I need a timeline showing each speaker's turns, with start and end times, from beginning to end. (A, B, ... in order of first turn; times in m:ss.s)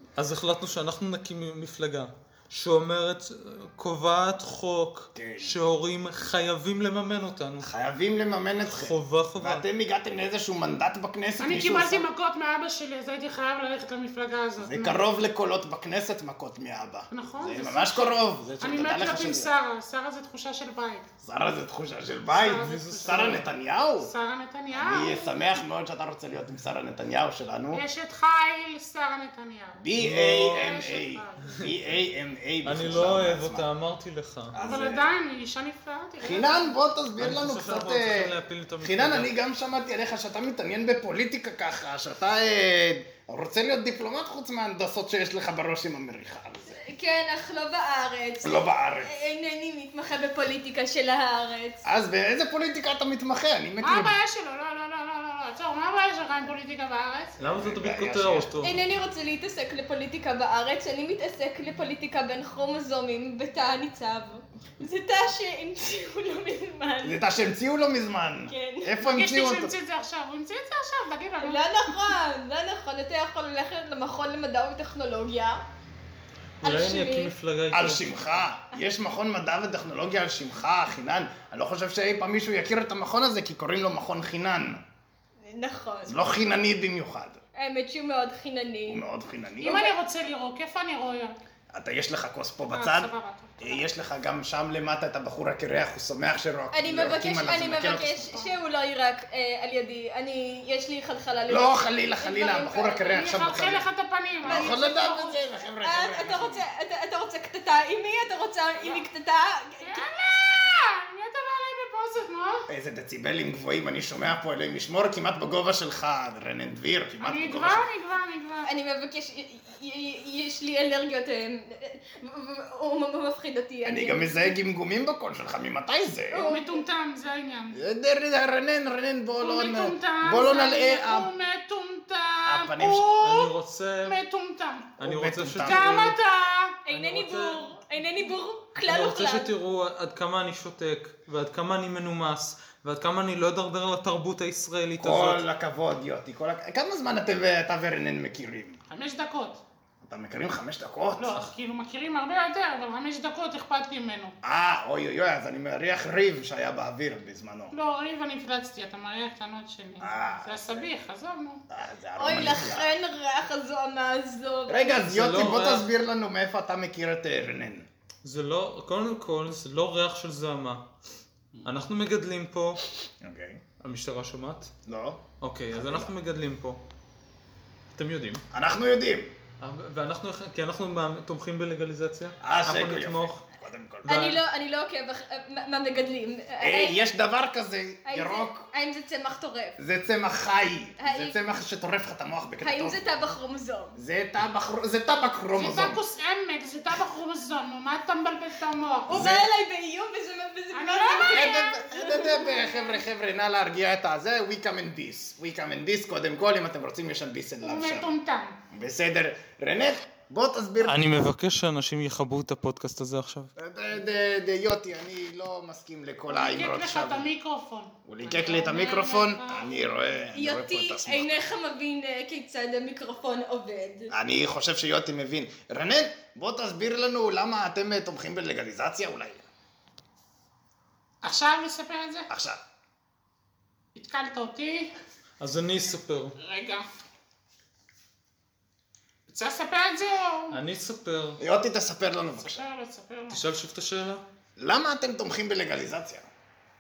0:00.2-0:07.7 A
0:05.1-0:05.5 B
0:07.6-0:12.1 B
0:08.6-0:09.6 A
0:11.4-0:15.0 C
0:14.6-0:19.5 B
0:17.1-0:21.1 C
0:21.2-0:24.1 B
0:22.3-0:23.5 C
0:22.6-0:23.5 A
0:24.0-0:25.3 C
0:24.7-0:27.8 B
0:27.7-0:29.8 C
0:29.7-0:33.7 B
0:29.9-0:30.8 A
0:30.4-0:31.6 C
0:31.5-0:31.8 A
0:32.6-0:34.6 A
0:34.5-0:35.1 B
0:34.6-0:36.8 C
0:36.2-0:46.8 B
0:37.2-0:39.3 A
0:46.7-0:51.8 D
0:48.4-0:49.1 B
0:51.8-0:54.1 B
0:53.8-0:57.4 C
0:57.4-0:58.8 A
0:57.5-0:58.5 B
0:58.6-1:07.2 D
1:07.0-1:09.7 B
1:08.5-1:08.9 D
1:09.0-1:11.6 C
1:11.4-1:15.6 D
1:16.6-1:18.1 A
1:16.6-1:17.3 D
1:17.7-1:24.8 B
1:25.4-1:26.3 D
1:26.1-1:27.4 B
1:27.5-1:29.0 D
1:28.9-1:29.9 B
1:29.6-1:31.4 C
1:31.7-1:38.4 B
1:32.7-1:33.8 C
1:36.7-1:43.2 D
1:41.5-1:43.9 B
1:43.1-1:45.4 C
1:44.4-1:46.6 B
1:44.5-1:44.8 D
1:45.8-1:50.0 D
1:49.8-1:52.6 C
1:52.7-1:57.8 B
1:57.2-1:58.7 C
1:58.6-2:04.5 D
2:03.8-2:06.4 B
2:06.3-2:06.8 D
2:06.4-2:07.8 C
2:07.7-2:11.3 B
2:09.4-2:13.5 C
2:12.4-2:13.1 B
2:13.2-2:14.2 A
2:14.0-2:14.9 C
2:15.0-2:16.1 A
2:15.0-2:16.2 B
2:15.6-2:16.7 C
2:16.8-2:19.5 D
2:16.9-2:17.6 A
2:18.8-2:25.4 A
2:25.0-2:28.8 B
2:28.9-2:29.6 C
2:30.0-2:31.4 B
2:31.2-2:34.4 C
2:34.4-2:37.7 B
2:37.7-2:41.6 C
2:40.0-2:40.8 B
2:41.7-2:42.9 B
2:42.2-2:44.9 D
2:44.7-2:47.8 B
2:45.0-2:45.9 A
2:48.2-2:50.9 A
2:51.6-2:52.8 A
2:53.2-2:53.6 B
2:53.8-2:54.7 A
2:54.8-2:56.1 B
2:55.4-2:56.8 A
2:57.9-2:58.4 A
2:58.5-2:59.3 B
2:59.6-3:03.4 A
3:02.4-3:04.1 B
3:04.0-3:04.4 A
3:04.0-3:07.0 D
3:06.6-3:08.7 B
3:08.0-3:09.8 D
3:09.8-3:13.0 B
3:11.0-3:11.4 D
3:12.6-3:14.0 D
3:14.0-3:16.0 B
3:15.5-3:19.3 C
3:19.1-3:22.9 D
3:19.1-3:19.5 B
3:20.7-3:21.7 C
3:21.3-3:28.1 B
3:27.6-3:28.6 C
3:28.7-3:31.0 B
3:30.8-3:33.5 A
3:33.6-3:37.3 B
3:36.3-3:39.8 C
3:38.0-3:41.4 B
3:40.3-3:44.1 D
3:44.1-3:49.5 B
3:51.2-3:52.3 C
3:52.3-3:52.6 B
3:53.9-3:54.9 C
3:55.4-3:56.4 A
3:56.4-3:56.8 C
3:59.3-4:00.6 C
4:00.5-4:01.4 A
4:01.4-4:02.6 B
4:02.4-4:03.4 C
4:03.3-4:04.2 A
4:04.6-4:06.3 B